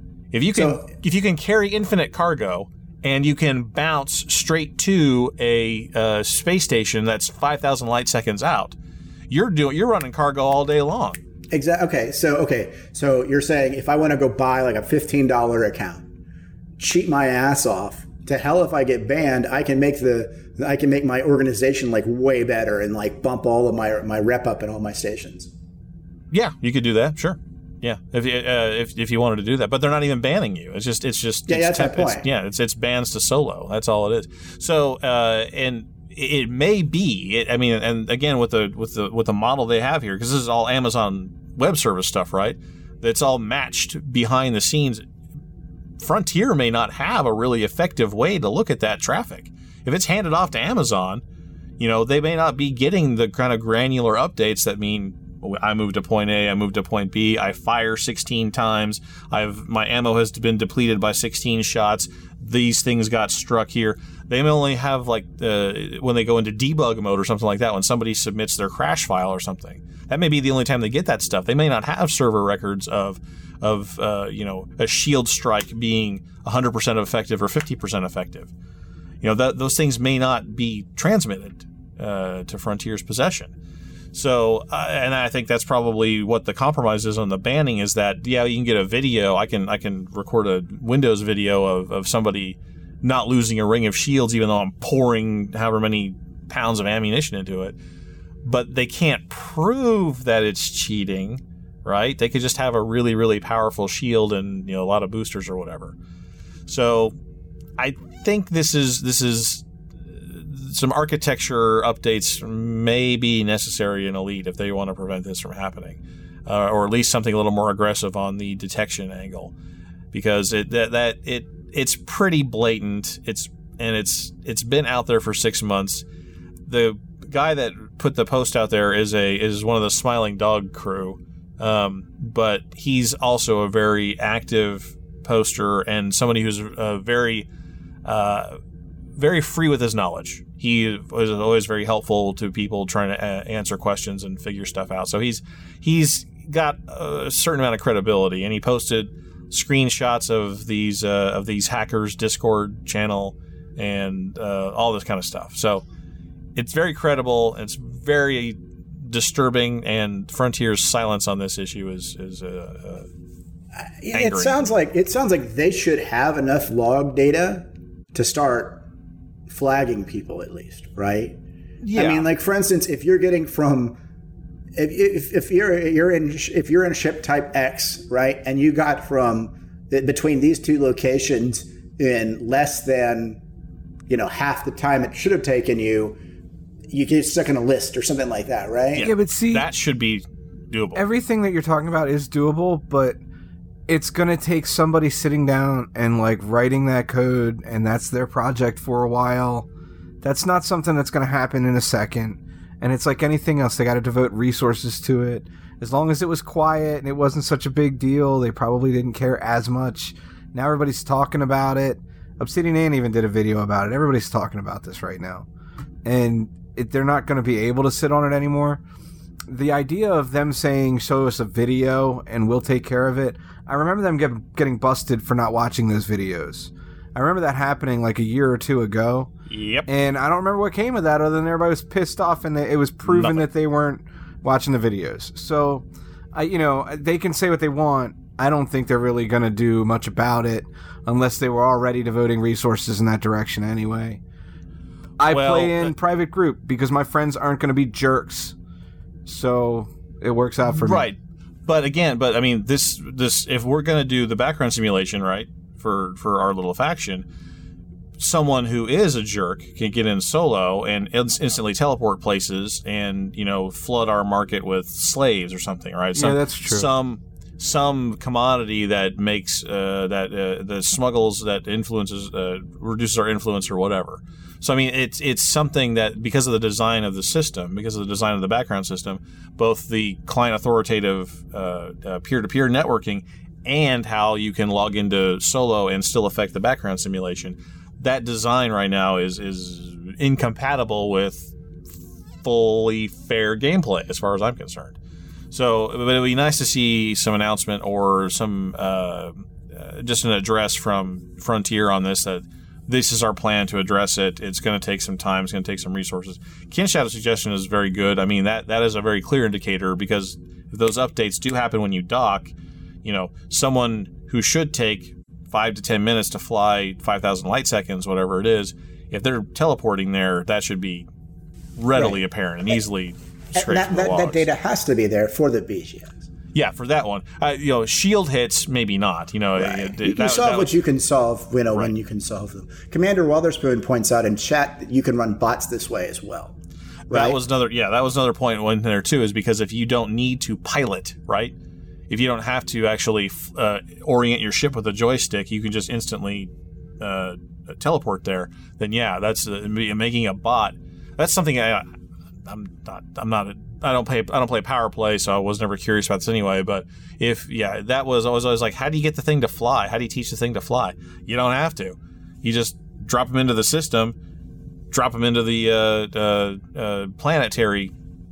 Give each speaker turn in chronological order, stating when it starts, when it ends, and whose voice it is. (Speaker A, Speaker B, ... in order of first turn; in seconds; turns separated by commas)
Speaker A: 0.3-8.8, Speaker B: 0.6-0.9, Speaker A: 9.3-11.2, Speaker B: 11.5-16.0, Speaker B: 16.8-25.5, Speaker A: 26.3-45.1, Speaker B: 31.5-32.3, Speaker A: 46.0-51.2, Speaker A: 51.8-78.5, Speaker A: 79.2-83.5, Speaker A: 84.1-97.8, Speaker A: 98.5-106.0, Speaker A: 106.7-107.2, Speaker A: 107.8-119.5, Speaker A: 120.1-126.0, Speaker A: 126.7-137.5, Speaker A: 138.1-138.6, Speaker A: 139.2-155.8, Speaker A: 156.6-163.1, Speaker B: 164.0-168.8, Speaker A: 164.1-164.6, Speaker B: 169.5-171.4, Speaker A: 171.8-172.3, Speaker B: 171.9-174.0, Speaker B: 174.8-183.4, Speaker B: 184.1-186.2, Speaker B: 186.9-189.1, Speaker A: 188.9-191.0, Speaker C: 189.0-189.7, Speaker C: 190.9-193.2, Speaker C: 193.9-199.7, Speaker C: 200.2-215.5, Speaker C: 216.1-218.8, Speaker C: 219.5-229.3, Speaker A: 229.5-229.9, Speaker C: 229.9-244.2, Speaker A: 233.1-233.5, Speaker C: 245.2-248.6, Speaker A: 245.3-245.9, Speaker C: 249.3-251.1, Speaker A: 250.7-257.3, Speaker A: 258.2-291.6, Speaker C: 266.1-266.9, Speaker A: 292.4-295.0, Speaker A: 295.5-312.5, Speaker A: 313.0-321.1, Speaker A: 321.8-324.5, Speaker B: 323.6-326.2, Speaker A: 326.5-330.7, Speaker B: 329.6-336.6, Speaker A: 337.1-341.5, Speaker B: 337.1-337.4, Speaker A: 342.1-351.9, Speaker A: 352.5-364.2, Speaker A: 364.9-367.9